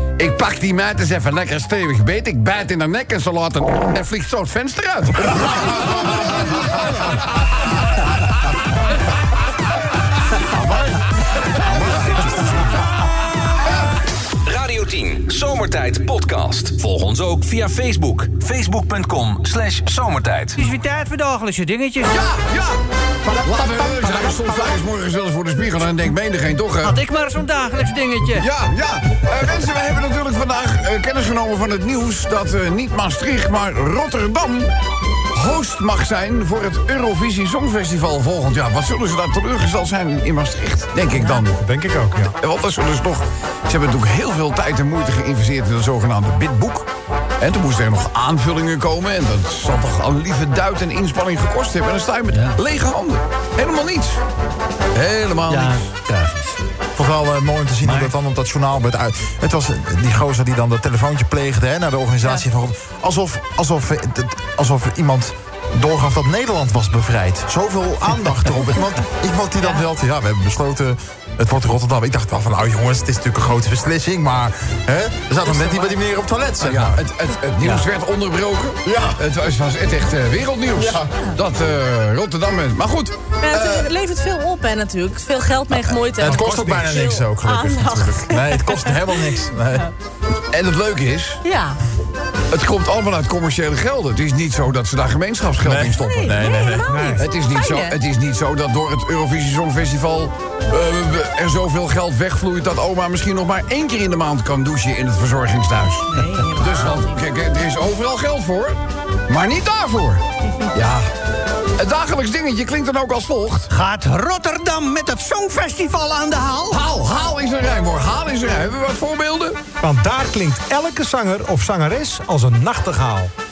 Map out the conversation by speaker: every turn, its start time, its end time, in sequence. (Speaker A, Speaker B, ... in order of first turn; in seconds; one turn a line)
Speaker A: 0.2-7.7
Speaker B: 5.7-6.9
Speaker B: 10.4-11.0
Speaker B: 11.6-12.5
Speaker A: 11.7-12.1
Speaker C: 14.4-20.6
Speaker D: 20.6-22.1
Speaker A: 22.1-22.8
Speaker E: 23.2-24.7
Speaker A: 23.4-27.0
Speaker D: 26.8-28.5
Speaker A: 28.4-34.7
Speaker A: 35.3-41.6
Speaker E: 41.6-42.3
Speaker A: 42.4-46.9
Speaker A: 47.4-54.2
Speaker D: 52.3-52.6
Speaker A: 54.9-55.8
Speaker D: 55.5-56.6
Speaker B: 57.0-77.0
Speaker D: 57.8-58.1
Speaker A: 76.6-83.9
Speaker B: 78.8-79.2
Speaker B: 80.7-81.1
Speaker F: 83.4-89.2
Speaker B: 85.9-89.9
Speaker E: 86.3-86.8
Speaker A: 90.5-91.4
Speaker F: 91.4-91.8
Speaker A: 92.5-96.5
Speaker B: 95.6-96.9
Speaker F: 96.0-98.0
Speaker E: 96.9-97.2
Speaker A: 97.2-111.1
Speaker F: 106.1-107.1
Speaker D: 106.1-106.5
Speaker A: 111.8-113.7
Speaker D: 113.7-116.8
Speaker A: 116.7-119.6
Speaker E: 119.8-123.3